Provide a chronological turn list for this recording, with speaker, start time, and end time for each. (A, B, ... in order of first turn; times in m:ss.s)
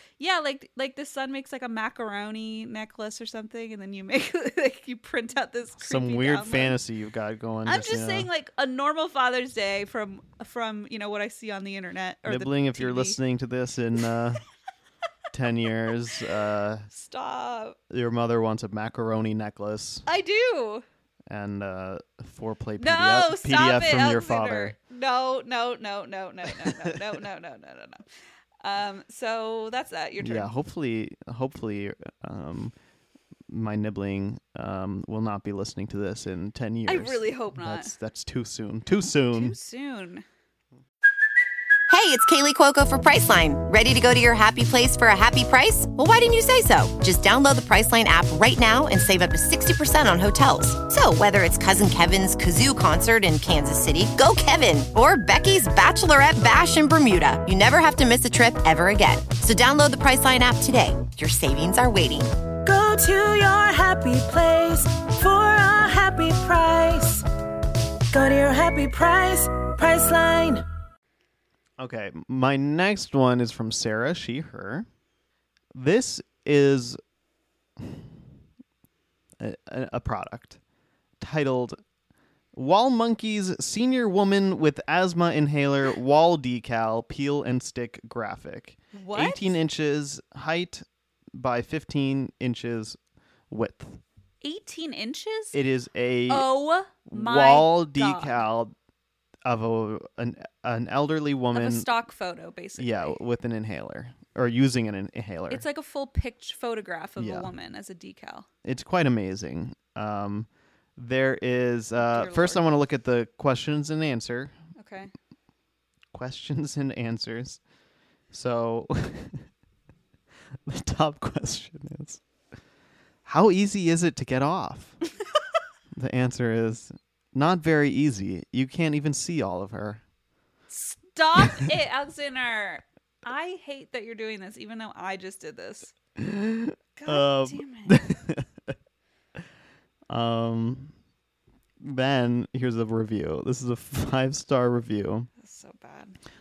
0:00.2-0:06.8 A
0:05.8-0:08.3 B
0:07.7-0:13.2 A
0:12.2-0:14.4 B
0:15.3-0:16.9 B
0:16.9-0:17.8 A
0:17.9-0:20.0 B
0:20.1-0:20.8 A
0:21.3-0:24.8 B
0:22.8-0:28.0 A
0:26.5-0:27.0 B
0:28.6-0:30.5 A
0:30.2-0:32.7 B
0:33.5-0:39.6 B
0:36.9-0:37.9 A
0:39.3-0:40.2 A
0:41.9-1:02.3 C
1:02.6-1:07.2 D
1:08.1-1:10.6 D
1:11.8-1:14.9 B
1:15.7-1:17.0 B
1:17.8-1:18.1 B
1:19.4-1:20.6 B
1:21.2-1:21.8 B
1:22.5-1:33.0 B
1:28.9-1:29.6 A
1:33.5-1:34.0 B
1:34.4-1:35.6 A
1:35.5-1:36.5 B
1:36.3-1:38.4 A
1:37.1-1:38.8 B
1:39.4-1:41.9 B
1:41.5-1:43.2 A
1:42.8-1:45.6 B
1:45.5-1:48.5 A
1:47.2-1:47.5 B
1:48.6-1:54.5 B
1:52.0-1:52.7 A
1:54.8-1:55.1 A
1:56.1-1:57.6 B
1:58.3-1:59.4 B
2:00.7-2:02.2 B
2:03.2-2:05.0 B
2:05.9-2:10.0 B
2:10.7-2:15.9 A
2:16.2-2:18.7 B
2:17.0-2:18.0 A
2:20.1-2:20.9 B
2:21.8-2:25.3 B
2:25.4-2:26.2 A